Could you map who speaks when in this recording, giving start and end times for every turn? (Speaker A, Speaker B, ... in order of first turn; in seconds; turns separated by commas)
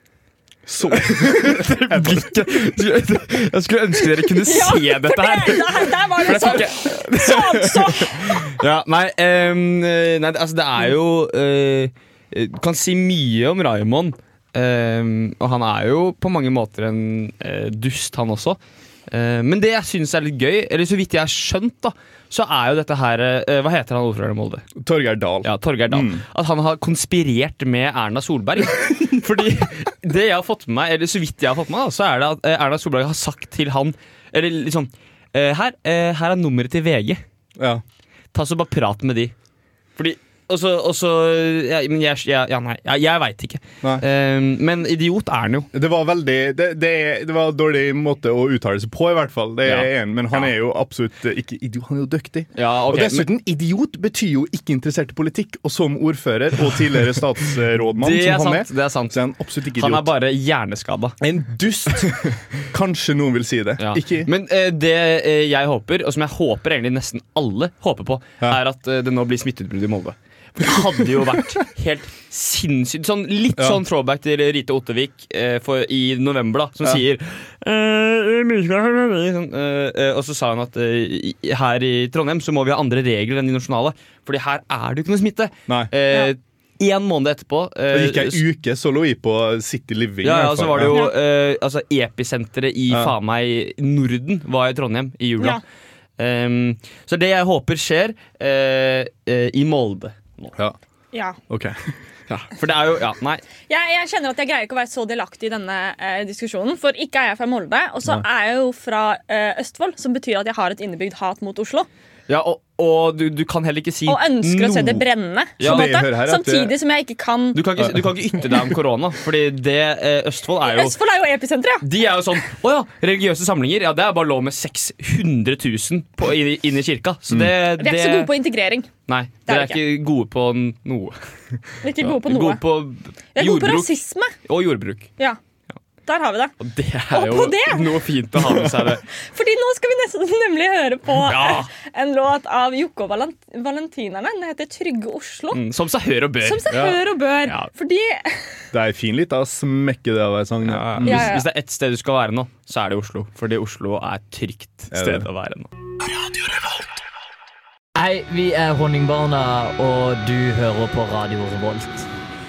Speaker A: 0.7-2.3, Speaker B: 0.9-24.7, Speaker C: 4.4-8.6, Speaker A: 24.8-26.2, Speaker B: 25.4-37.2, Speaker A: 37.6-37.8, Speaker B: 38.3-39.3, Speaker B: 40.0-45.7, Speaker A: 45.7-60.1, Speaker B: 49.6-50.5, Speaker B: 52.5-53.3, Speaker B: 58.0-59.2, Speaker B: 59.8-61.2, Speaker A: 61.2-64.3, Speaker B: 63.8-88.4, Speaker A: 73.6-73.8, Speaker A: 85.7-85.9, Speaker A: 87.9-91.0, Speaker B: 90.2-95.6, Speaker C: 90.9-91.2, Speaker B: 96.2-100.5, Speaker C: 101.1-101.4, Speaker A: 101.5-101.8, Speaker B: 102.3-103.4, Speaker C: 103.7-111.9, Speaker B: 112.3-115.0, Speaker C: 114.1-117.6, Speaker B: 115.6-116.0, Speaker A: 115.6-116.7, Speaker B: 117.5-121.0, Speaker A: 117.8-118.8, Speaker C: 120.6-121.9, Speaker B: 121.8-128.3, Speaker C: 127.8-128.9, Speaker B: 129.1-133.9, Speaker C: 129.5-129.8, Speaker C: 131.8-132.6, Speaker C: 133.3-134.3, Speaker B: 134.4-135.1, Speaker C: 136.1-136.6, Speaker B: 136.6-139.0, Speaker C: 137.1-138.1, Speaker A: 138.4-138.6, Speaker C: 139.1-145.6, Speaker B: 141.2-141.7, Speaker B: 145.5-146.9, Speaker C: 146.4-148.6, Speaker A: 146.7-147.0, Speaker A: 148.7-151.3, Speaker B: 150.7-155.7, Speaker C: 151.0-151.5, Speaker A: 154.9-155.3, Speaker D: 158.0-162.1